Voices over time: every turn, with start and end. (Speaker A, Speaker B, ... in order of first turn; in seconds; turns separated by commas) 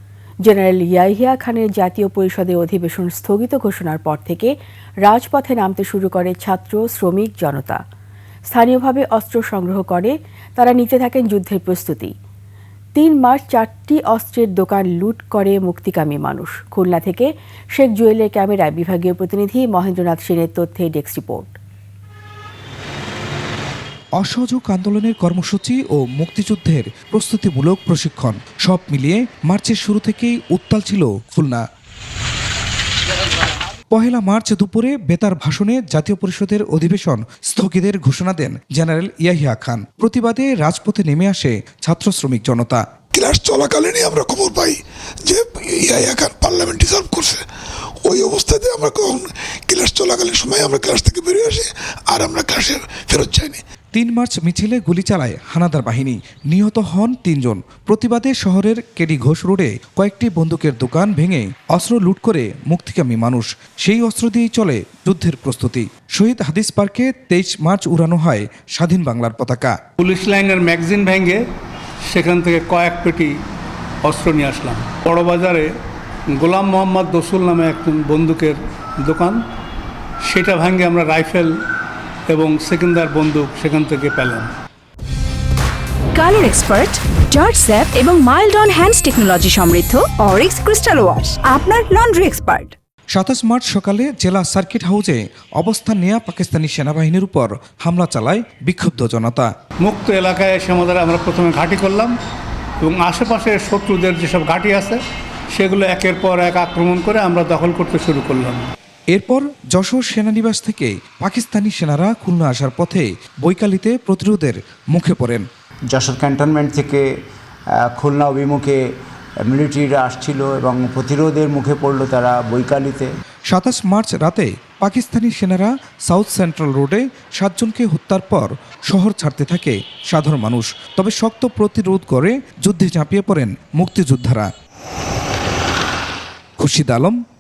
Speaker A: 0.5-7.8, Speaker A: 8.5-12.1, Speaker A: 13.0-21.6, Speaker B: 24.2-31.6, Speaker B: 33.9-42.8, Speaker C: 43.1-47.4, Speaker C: 48.0-53.6, Speaker B: 53.9-69.8, Speaker D: 70.0-71.4, Speaker D: 72.1-73.3, Speaker D: 74.0-75.7, Speaker D: 76.3-79.4, Speaker D: 80.3-81.5, Speaker D: 82.3-84.5, Speaker E: 86.2-92.8, Speaker B: 93.1-99.5, Speaker D: 99.8-102.1, Speaker D: 102.8-105.0, Speaker D: 105.5-108.7, Speaker B: 109.1-115.5, Speaker F: 115.9-117.1, Speaker F: 117.8-118.8, Speaker F: 119.4-123.1, Speaker B: 123.5-134.5, Speaker B: 136.6-137.2